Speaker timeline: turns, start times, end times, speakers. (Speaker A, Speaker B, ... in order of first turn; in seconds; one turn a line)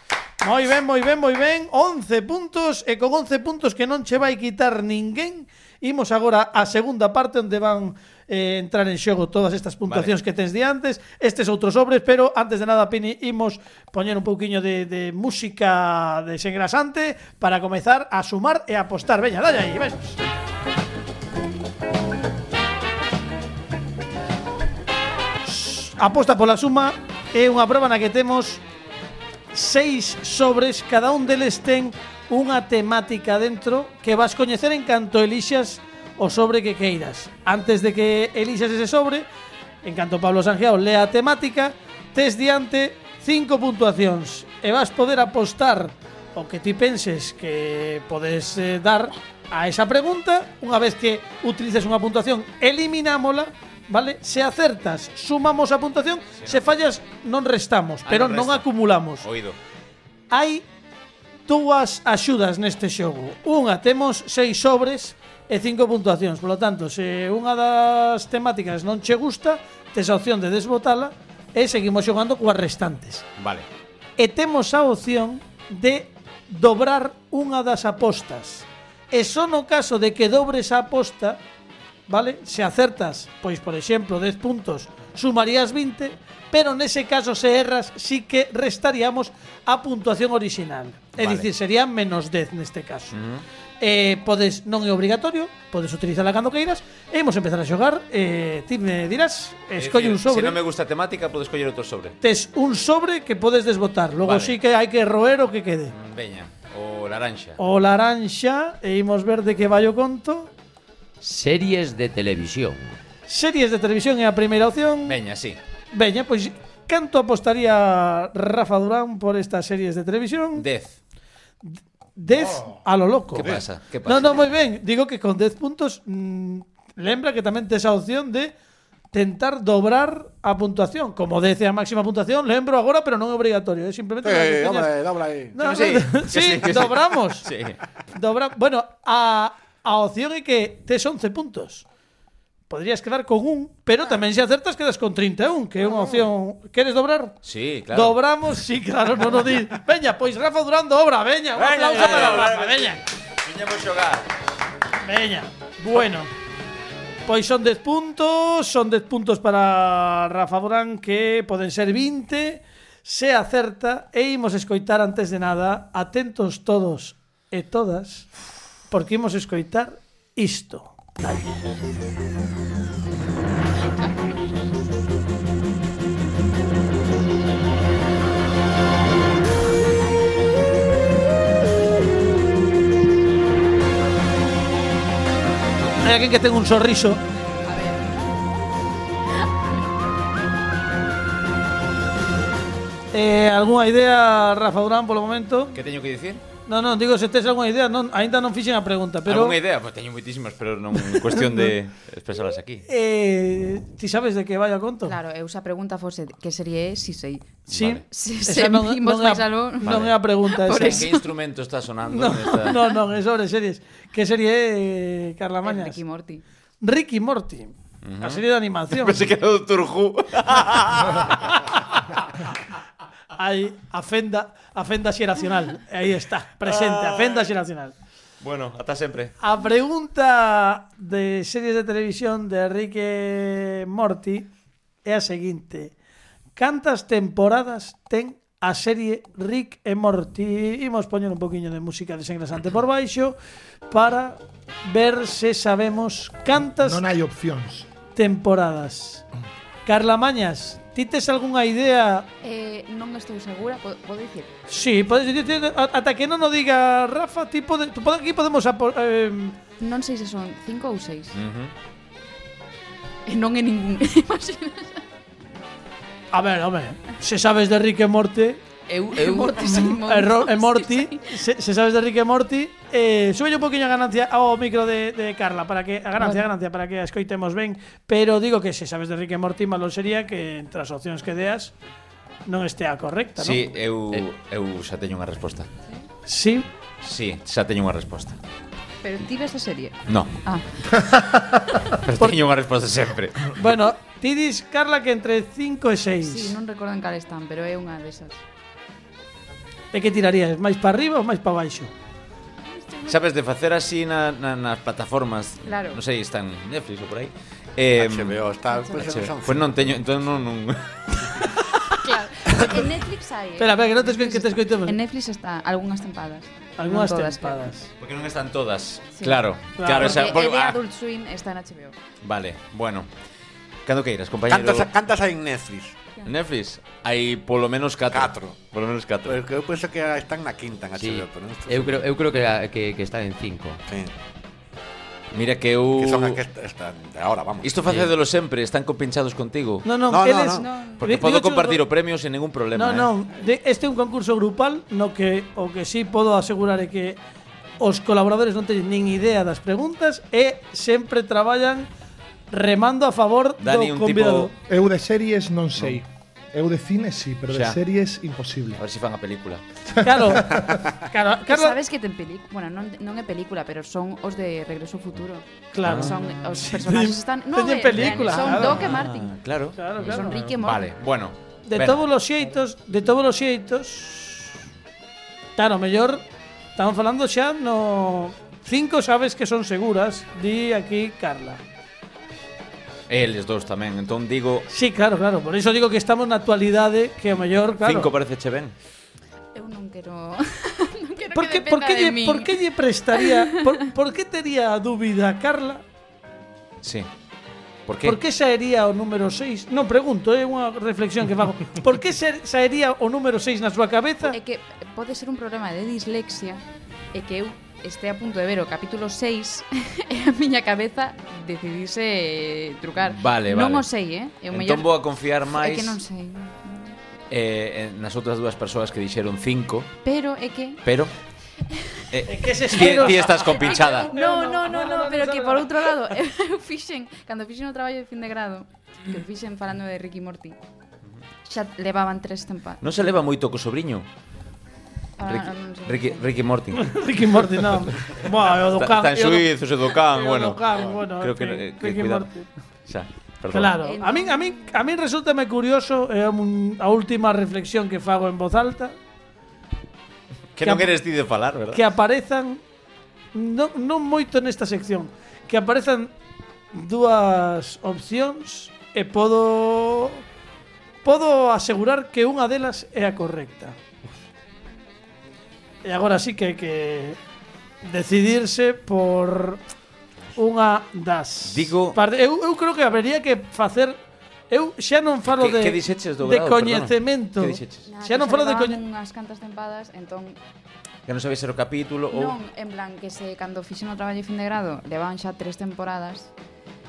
Speaker A: 0.4-20.2
Speaker B: 9.9-10.1
Speaker A: 25.4-28.6
Speaker A: 29.5-39.2
Speaker A: 39.8-59.2
Speaker B: 56.4-56.8
Speaker B: 58.0-58.7
Speaker B: 59.2-59.5
Speaker A: 60.3-60.6
Speaker A: 61.5-73.2
Speaker B: 73.4-73.7
Speaker A: 74.2-81.4
Speaker A: 82.1-93.1
Speaker B: 91.2-91.5
Speaker B: 93.1-93.4
Speaker A: 93.8-100.6
Speaker B: 99.8-102.2
Speaker A: 102.2-105.9
Speaker B: 104.2-104.5
Speaker B: 105.9-107.6
Speaker A: 107.6-110.5
Speaker C: 111.2-112.9
Speaker A: 113.3-115.2
Speaker B: 115.0-115.6
Speaker A: 115.9-120.7
Speaker B: 120.5-121.0
Speaker A: 121.6-128.5
Speaker B: 123.3-124.4
Speaker A: 129.1-135.0
Speaker D: 134.2-135.6
Speaker A: 135.5-137.5
Speaker B: 135.6-137.8
Speaker A: 138.1-141.8
Speaker A: 142.7-147.4
Speaker B: 147.4-148.2
Speaker A: 147.9-153.0
Speaker B: 151.6-154.3
Speaker A: 155.0-156.3
Speaker A: 157.2-168.3
Speaker A: 168.9-171.5
Speaker A: 186.0-187.2
Speaker E: 187.6-188.0
Speaker A: 193.1-195.7
Speaker B: 195.7-196.4
Speaker A: 196.7-199.6
Speaker B: 199.2-202.8
Speaker A: 201.0-201.7
Speaker A: 202.9-205.2
Speaker E: 205.1-211.2
Speaker B: 207.7-208.0
Speaker A: 207.7-211.0
Speaker B: 209.8-210.2
Speaker B: 210.7-212.9
Speaker A: 212.1-216.0
Speaker E: 215.6-216.4
Speaker A: 216.8-219.2
Speaker B: 218.0-221.7
Speaker A: 223.3-227.9
Speaker B: 226.6-227.5
Speaker B: 228.4-229.3
Speaker A: 229.4-234.5
Speaker A: 235.0-235.9
Speaker A: 236.6-243.3
Speaker A: 243.9-247.0
Speaker F: 246.8-247.9
Speaker A: 248.1-249.2
Speaker A: 249.8-252.3
Speaker E: 252.4-254.5
Speaker A: 254.7-259.6
Speaker E: 259.8-261.4
Speaker B: 261.3-261.7
Speaker E: 263.2-265.0
Speaker A: 266.3-268.6
Speaker E: 268.9-271.3
Speaker A: 269.1-281.7
Speaker E: 276.2-276.4
Speaker A: 282.4-283.6
Speaker B: 283.4-285.7
Speaker A: 286.2-286.7
Speaker B: 287.0-288.4
Speaker E: 289.0-290.6
Speaker B: 290.1-290.3
Speaker B: 291.9-293.6
Speaker A: 293.6-296.5
Speaker E: 296.2-298.4
Speaker A: 299.9-301.9
Speaker E: 302.7-303.1
Speaker B: 303.1-308.4
Speaker E: 305.6-306.0
Speaker D: 307.9-309.9
Speaker E: 308.7-309.1
Speaker B: 309.0-311.6
Speaker E: 311.9-317.6
Speaker A: 313.6-314.9
Speaker A: 316.8-317.9
Speaker B: 318.0-320.8
Speaker E: 319.1-321.9
Speaker A: 319.8-320.3
Speaker B: 322.2-323.1
Speaker B: 323.8-324.9
Speaker D: 324.5-325.9
Speaker B: 326.2-329.4
Speaker D: 328.1-328.6
Speaker D: 329.2-332.1
Speaker C: 331.0-333.8
Speaker B: 335.3-336.4
Speaker D: 335.9-338.0
Speaker B: 337.6-339.9
Speaker A: 339.8-341.8
Speaker D: 340.0-340.6
Speaker E: 340.5-341.0
Speaker B: 341.0-343.1
Speaker A: 342.7-347.2
Speaker A: 347.8-351.9
Speaker A: 352.5-354.5
Speaker B: 353.6-354.5
Speaker F: 354.7-358.8
Speaker B: 357.5-357.8
Speaker B: 358.8-359.6
Speaker F: 359.9-360.8
Speaker A: 360.0-361.8
Speaker E: 361.5-369.4
Speaker A: 365.7-368.9
Speaker B: 365.8-366.1
Speaker B: 367.9-372.1
Speaker A: 369.8-370.4
Speaker E: 370.0-370.9
Speaker A: 371.7-374.5
Speaker A: 375.6-376.2
Speaker A: 376.8-381.6
Speaker B: 383.1-384.7
Speaker A: 384.7-388.1
Speaker B: 387.8-388.7
Speaker E: 389.5-392.6
Speaker A: 391.3-395.8
Speaker E: 393.2-393.5
Speaker B: 396.8-397.1
Speaker B: 397.9-398.2
Speaker A: 398.0-404.4
Speaker E: 404.3-406.6
Speaker E: 407.1-414.9
Speaker B: 413.0-413.9
Speaker B: 414.5-416.0
Speaker E: 415.5-417.0
Speaker B: 417.3-419.9
Speaker E: 420.0-420.8
Speaker B: 420.8-421.1
Speaker B: 422.1-424.1
Speaker A: 422.3-426.1
Speaker E: 423.5-430.6
Speaker E: 431.4-432.8
Speaker B: 432.8-434.1
Speaker E: 435.2-436.2
Speaker B: 435.3-436.9
Speaker A: 436.8-442.5
Speaker B: 438.6-442.3
Speaker B: 442.9-443.7
Speaker A: 443.5-448.9
Speaker E: 443.8-444.8
Speaker B: 450.5-451.8
Speaker A: 450.6-450.9
Speaker A: 451.7-452.6
Speaker A: 453.3-456.1
Speaker A: 456.7-460.2
Speaker A: 461.0-463.8
Speaker A: 465.8-467.2
Speaker A: 467.8-469.6
Speaker A: 470.4-474.0
Speaker B: 471.4-472.0
Speaker A: 474.5-478.8
Speaker B: 475.3-477.9
Speaker E: 477.9-480.4
Speaker B: 481.1-482.4
Speaker E: 482.1-486.3